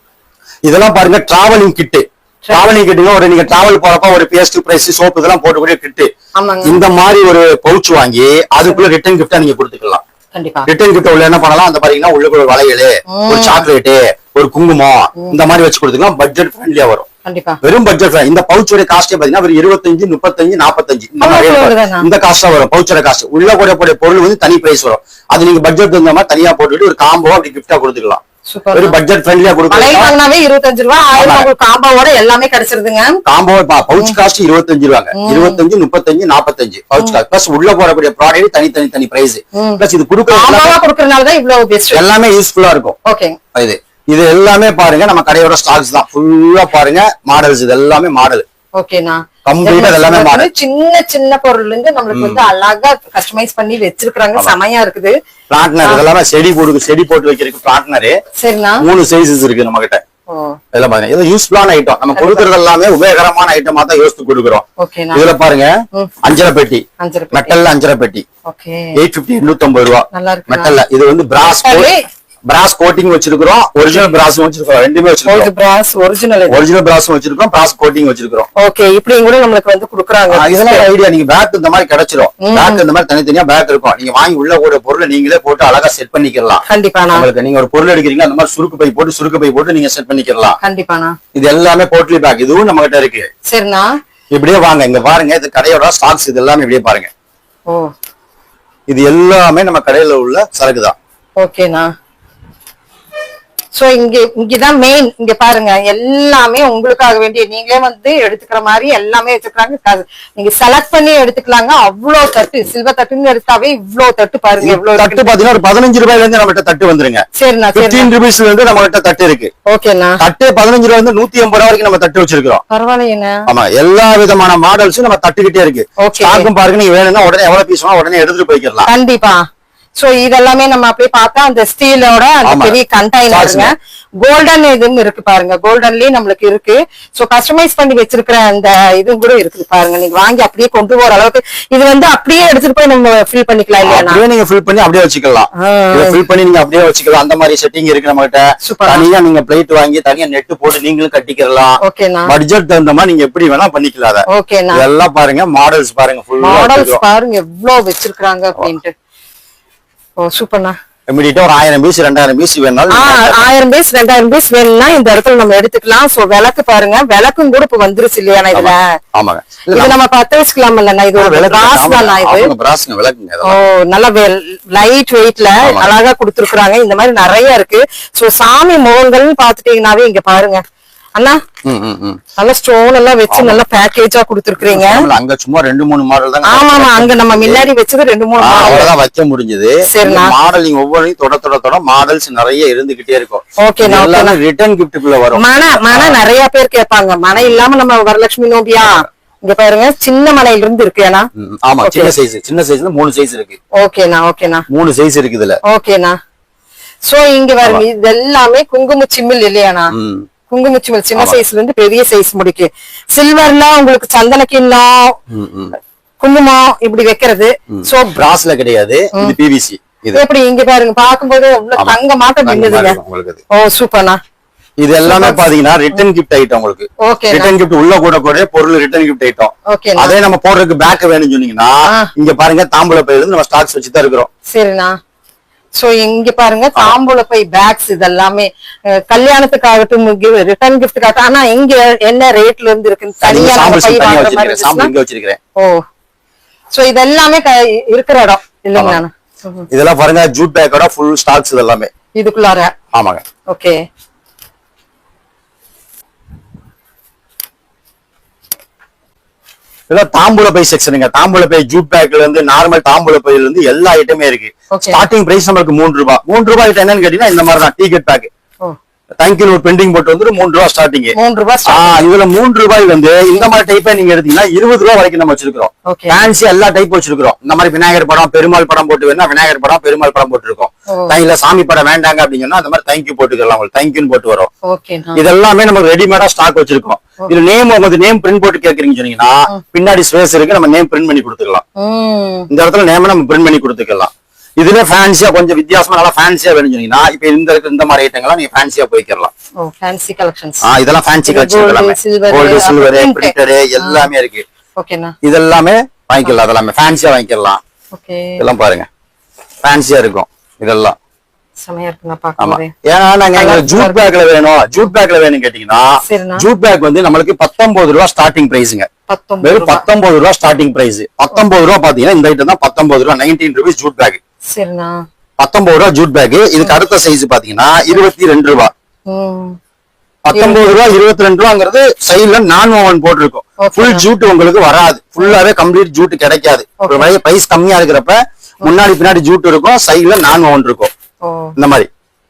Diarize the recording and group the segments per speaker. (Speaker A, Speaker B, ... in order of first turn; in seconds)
Speaker A: 0.6-6.1, 6.6-10.0, 10.7-17.1, 17.6-28.2, 28.7-30.1, 31.1-31.5, 33.2-40.8, 41.9-43.0, 43.5-48.4, 49.4-50.5, 52.1-52.4, 55.5-58.2, 58.8-60.0, 60.7-68.2, 69.0-71.9, 72.5-75.5, 76.5-78.5, 80.3-90.6, 91.3-93.3, 94.3-97.1, 98.9-100.9, 114.6-117.2, 117.7-119.5, 120.2-122.6, 123.5-128.9, 132.4-132.8, 133.3-133.7, 143.8-157.0, 161.1-163.5, 168.5-169.9, 171.2-173.6, 175.6-175.9, 181.6-182.2, 183.3-183.6, 184.6-187.6, 188.4-196.2, 201.3-203.6, 204.7-205.6, 209.9-210.3, 215.3-215.7, 217.7-220.2, 221.8-223.4, 224.8-234.3, 243.2-245.4, 248.8-249.0, 249.7-251.9, 252.9-253.2, 259.9-268.3, 269.2-284.5, 285.1-291.6, 292.5-299.3, 300.6-304.4, 305.2-307.6, 308.4-308.9, 309.6-310.9, 312.4-318.9, 319.4-324.2, 325.4-328.7, 330.2-340.9, 341.6-341.9
Speaker B: 2.4-2.7, 6.3-6.8, 10.3-10.7, 13.1-13.6, 17.2-17.6, 21.2-22.1, 28.5-29.0, 29.7-33.2, 35.1-35.6, 39.5-42.0, 43.0-43.4, 48.8-55.1, 58.4-58.8, 60.3-60.6, 62.1-62.5, 64.8-65.2, 67.0-67.6, 68.5-68.9, 70.1-70.8, 71.4-72.0, 75.2-76.6, 78.6-80.8, 82.4-82.8, 86.7-87.2, 90.6-91.2, 93.5-93.9, 101.4-101.9, 103.7-115.3, 117.3-118.1, 119.7-120.2, 122.7-123.4, 126.0-126.5, 128.8-129.4, 130.0-144.2, 145.6-146.2, 148.6-149.0, 151.8-152.3, 154.3-154.8, 156.4-158.9, 160.2-160.8, 162.9-168.8, 169.7-172.5, 173.4-180.6, 181.2-181.4, 182.4-185.1, 186.4-188.9, 189.9-190.3, 193.6-194.3, 195.3-201.3, 201.8-202.1, 203.7-204.7, 205.7-206.2, 207.1-209.9, 210.5-215.1, 216.2-218.2, 220.1-223.0, 223.5-224.2, 225.0-225.5, 227.0-227.5, 229.7-230.2, 234.5-234.9, 235.8-244.9, 245.6-245.8, 246.7-249.7, 252.2-252.7, 253.5-253.8, 264.7-265.0, 271.1-272.0, 275.9-276.3, 284.6-285.2, 291.8-292.5, 299.6-300.6, 301.2-304.1, 304.8-305.1, 307.9-308.4, 311.6-312.7, 313.3-314.1, 316.0-316.4, 319.1-319.8, 324.5-325.0, 329.1-329.6, 330.3-330.6, 333.6-334.0, 336.8-337.1, 341.2-341.5